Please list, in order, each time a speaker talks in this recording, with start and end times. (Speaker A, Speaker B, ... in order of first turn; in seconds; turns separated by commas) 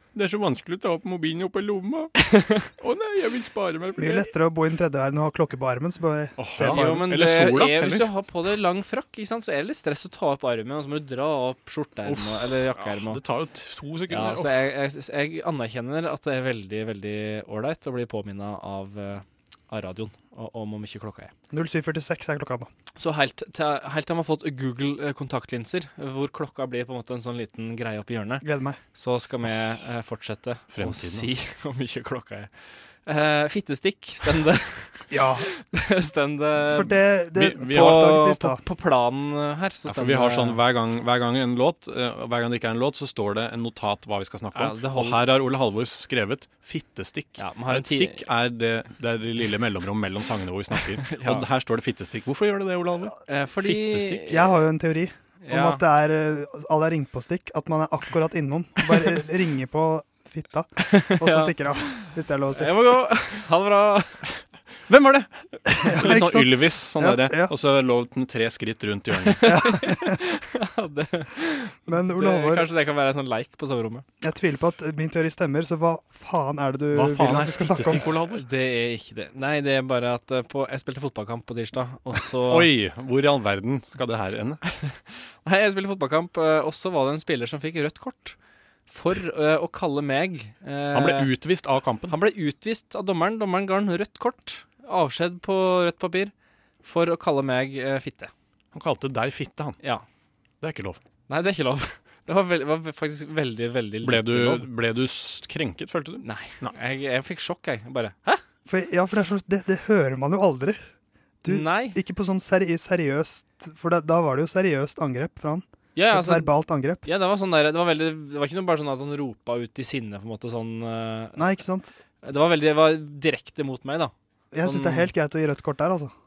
Speaker A: 0.1-4.3, Speaker B: 2.3-2.6, Speaker C: 4.0-7.1, Speaker A: 6.4-8.1, Speaker B: 6.6-13.2, Speaker A: 12.1-14.7, Speaker B: 14.1-21.3, Speaker C: 21.5-22.7, Speaker B: 22.9-32.5, Speaker C: 28.4-28.8, Speaker A: 30.7-31.3, Speaker B: 33.0-37.0, Speaker C: 35.1-35.5, Speaker C: 36.7-38.6, Speaker A: 37.4-38.1, Speaker B: 37.6-40.6, Speaker A: 39.9-54.3, Speaker B: 44.5-45.2, Speaker B: 47.4-48.2, Speaker B: 51.0-51.5, Speaker B: 53.2-54.6, Speaker C: 54.3-62.7, Speaker B: 55.4-55.8, Speaker B: 60.8-64.2, Speaker A: 64.9-69.5, Speaker C: 65.7-67.5, Speaker B: 69.3-74.0, Speaker C: 69.4-70.2, Speaker C: 71.9-72.7, Speaker C: 74.2-78.1, Speaker A: 76.9-78.4, Speaker B: 77.9-82.7, Speaker A: 82.5-84.6, Speaker B: 84.8-88.3, Speaker B: 88.9-91.3, Speaker A: 90.9-92.1, Speaker B: 92.1-96.3, Speaker B: 96.8-98.3, Speaker A: 98.7-99.8, Speaker A: 100.6-101.0, Speaker B: 101.3-104.7, Speaker A: 104.0-106.7, Speaker B: 106.2-108.4, Speaker C: 108.7-110.8, Speaker C: 111.4-117.0, Speaker B: 111.5-112.0, Speaker B: 115.9-116.5, Speaker B: 117.0-121.4, Speaker C: 121.3-121.9, Speaker B: 122.2-124.1, Speaker C: 124.5-126.1, Speaker B: 124.6-125.1